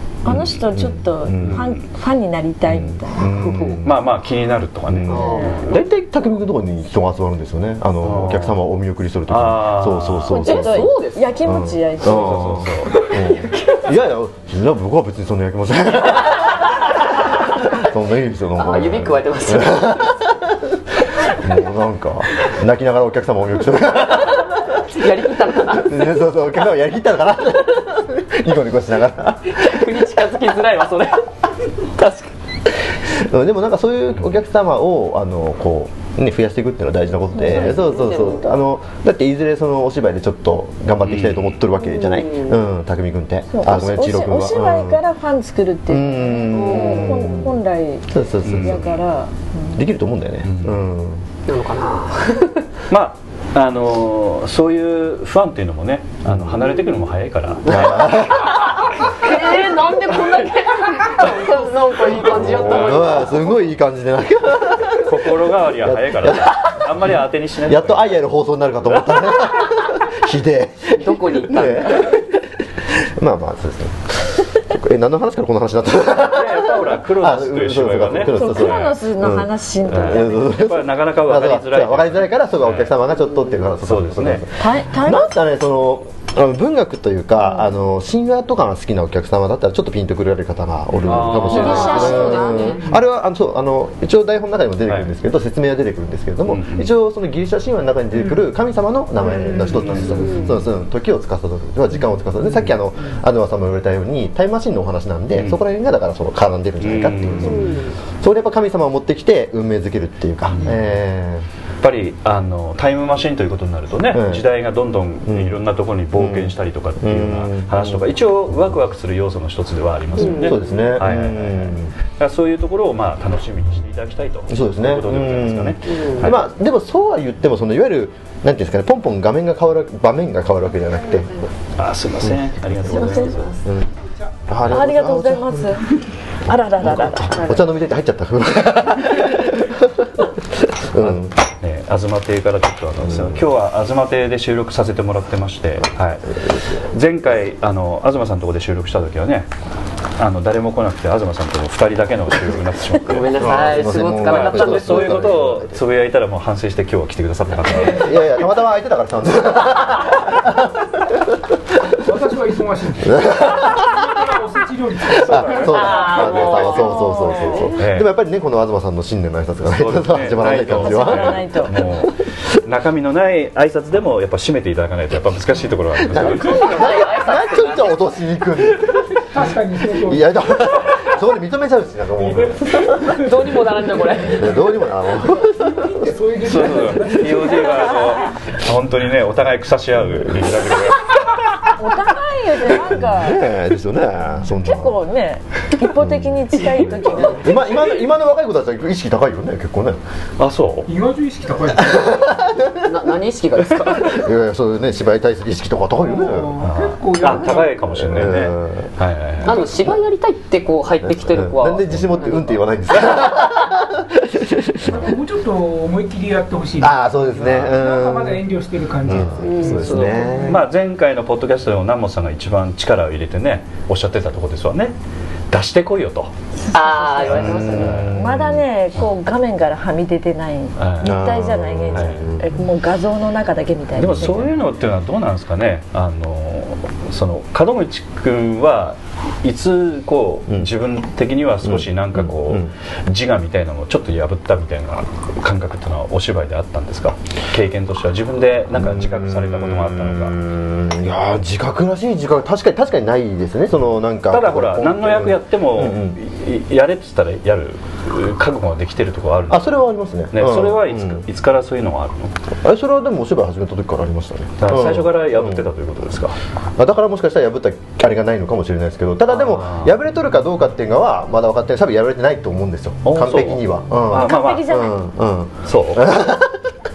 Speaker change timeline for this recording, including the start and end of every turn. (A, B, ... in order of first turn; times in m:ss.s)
0:00.2-0:03.2 A
0:00.3-0:01.6 B
0:01.4-0:01.8 C
0:02.7-0:04.0 B
0:03.3-0:03.8 D
0:03.8-0:05.7 C
0:04.9-0:10.8 B
0:05.1-0:05.8 D
0:08.0-0:08.6 C
0:09.3-0:10.5 C
0:10.3-0:12.6 A
0:10.3-0:11.3 D
0:11.4-0:16.7 B
0:12.0-0:13.0 C
0:12.9-0:13.8 D
0:16.4-0:16.8 D
0:17.6-0:20.6 B
0:18.6-0:20.1 D
0:21.3-0:24.6 B
0:24.8-0:26.0 D
0:25.7-0:30.0 B
0:29.5-0:31.3 D
0:31.8-0:32.3 D
0:33.0-0:45.0 B
0:37.4-0:38.5 D
0:41.0-0:41.5 C
0:41.8-0:42.6 D
0:43.5-0:49.8 A
0:45.9-0:47.6 B
0:46.5-0:47.5 D
0:48.1-0:48.9 B
0:48.4-0:48.9 C
0:49.7-0:51.2 B
0:50.4-0:50.8 C
0:51.4-0:52.6 D
0:52.9-0:58.1 C
0:56.3-0:56.6 B
0:57.6-0:58.7 B
0:58.5-1:03.5 D
1:02.2-1:06.8 B
1:02.3-1:03.3 C
1:04.9-1:08.2 C
1:07.6-1:51.4 B
1:11.0-1:12.2 D
1:16.2-1:19.0 C
1:18.3-1:20.6 A
1:19.8-1:22.9 C
1:23.8-1:24.5 C
1:24.6-1:25.3 A
1:31.0-1:32.3 C
1:31.5-1:32.9 D
1:31.5-1:32.6 A
1:36.5-1:36.9 C
1:39.7-1:40.3 E
1:39.9-1:40.6 C
1:40.1-1:40.6 D
1:46.8-1:47.7 C
1:47.4-1:47.9 D
1:50.5-1:50.9 C
1:51.8-2:06.4 C
1:54.1-1:54.4 B
1:55.3-1:55.6 B
1:56.1-1:58.0 B
2:00.2-2:00.8 D
2:00.2-2:01.9 B
2:04.5-2:11.3 B
2:05.9-2:06.3 D
2:11.8-2:13.5 C
2:12.9-2:13.6 D
2:13.0-2:13.3 A
2:13.6-2:13.9 B
2:14.5-2:15.7 B
2:14.6-2:17.6 A
2:16.8-2:21.4 B
2:21.0-2:29.5 C
2:23.0-2:23.4 B
2:30.2-2:38.2 C
2:33.0-2:35.4 D
2:33.3-2:35.8 B
2:37.7-2:38.0 E
2:37.8-2:41.2 B
2:42.0-2:45.7 E
2:43.0-2:44.0 B
2:45.1-2:51.7 B
2:45.3-2:46.6 C
2:45.7-2:47.6 D
2:46.7-2:47.7 A
2:47.6-2:48.1 C
2:49.7-2:56.8 C
2:50.5-2:51.9 A
2:56.0-2:59.1 B
2:56.2-2:58.0 D
2:59.2-3:00.4 E
2:59.9-3:03.0 B
3:02.3-3:03.3 E
3:03.0-3:04.5 D
3:04.2-3:06.0 B
3:05.3-3:07.8 E
3:06.4-3:11.7 C
3:11.8-3:13.4 A
3:12.8-3:15.0 B
3:14.6-3:17.4 A
3:15.9-3:16.6 B
3:17.1-3:20.0 B
3:20.4-3:20.9 C
3:20.8-3:22.2 E
3:21.7-3:22.9 B
3:22.8-3:24.3 D
3:24.0-3:26.5 B
3:26.0-3:28.1 E
3:26.6-3:29.7 C
3:27.3-3:28.9 B
3:29.4-3:32.6 D
3:31.0-3:35.1 B
3:34.9-3:40.6 E
3:36.8-3:38.4 B
3:37.4-3:37.7 C
3:39.0-3:40.6 B
3:39.4-3:40.3 D
3:39.8-3:44.9 C
3:45.5-3:46.3 C
3:46.7-3:54.5 A
3:46.7-3:48.1 D
3:47.2-3:48.0 C
3:47.3-3:48.6 B
3:50.8-3:51.2 C
3:51.0-3:52.4 B
3:51.9-3:52.2 C
3:53.9-4:10.4 C
4:01.6-4:02.7 B
4:08.7-4:16.2 B
4:14.3-4:19.8 C
4:19.5-4:21.2 B
4:20.3-4:22.3 C
4:22.6-4:25.7 B
4:24.6-4:26.4 C
4:26.8-4:36.6 B
4:29.3-4:29.9 C
4:33.0-4:34.8 C
4:34.1-4:34.9 A
4:35.6-4:36.1 C